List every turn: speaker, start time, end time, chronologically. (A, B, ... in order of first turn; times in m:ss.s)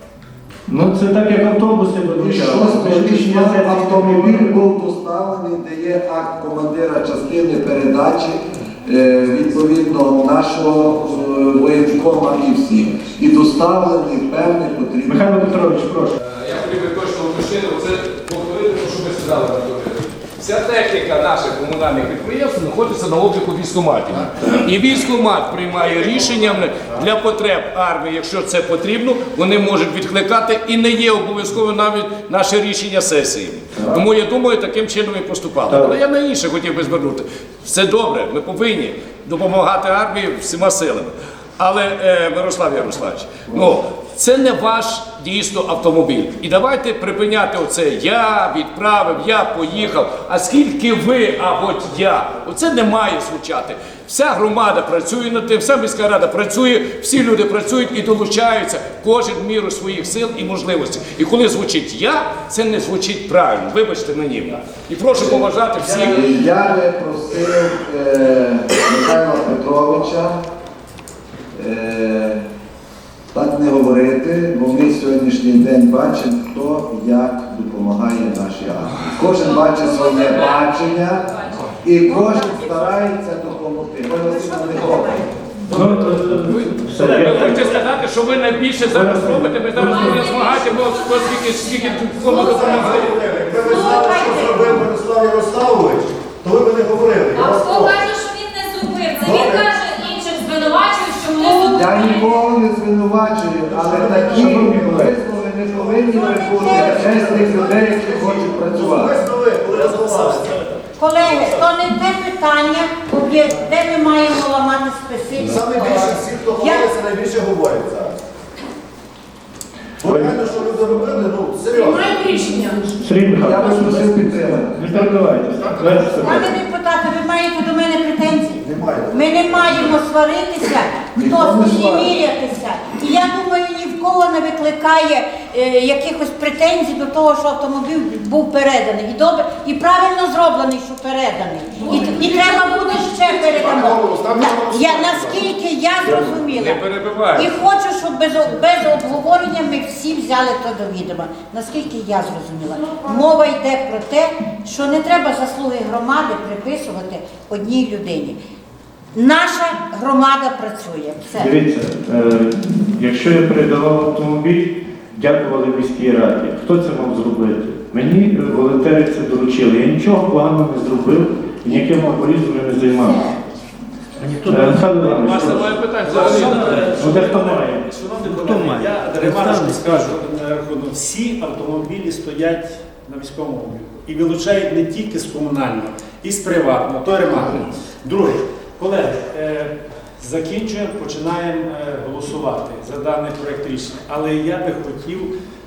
0:00.7-0:04.6 A
0:02.1-0:15.7 B
0:15.0-0:16.2 A
0:16.2-1:06.4 C
0:33.8-0:34.0 A
0:35.7-0:36.0 A
1:05.1-1:10.4 B
1:11.5-1:12.4 B
1:13.3-1:21.2 B
1:19.3-1:21.7 D
1:21.8-1:25.2 B
1:22.0-1:23.0 E
1:24.2-1:25.3 E
1:25.6-1:27.8 A
1:26.3-1:33.1 C
1:27.4-1:27.7 F
1:28.8-1:30.3 A
1:29.8-1:33.0 D
1:32.3-1:34.9 E
1:32.3-1:38.0 G
1:37.3-1:42.3 D
1:39.2-1:39.7 G
1:41.4-1:49.2 B
1:43.7-1:44.8 G
1:44.2-1:45.1 A
1:45.7-1:50.7 G
1:46.0-1:48.0 E
1:51.0-1:56.9 E
1:55.4-1:58.2 G
2:00.0-2:02.4 G
2:00.0-2:00.4 A
2:03.0-2:06.6 A
2:03.4-2:05.0 B
2:06.2-2:26.8 E
2:08.6-2:09.9 G
2:11.2-2:12.2 B
2:21.9-2:23.0 D
2:23.9-2:25.5 G
2:26.0-2:27.6 C
2:27.3-2:38.4 E
2:39.1-2:41.5 E
2:41.4-2:53.3 A
2:54.2-3:15.3 F
2:54.4-2:57.8 A
2:55.2-2:57.0 C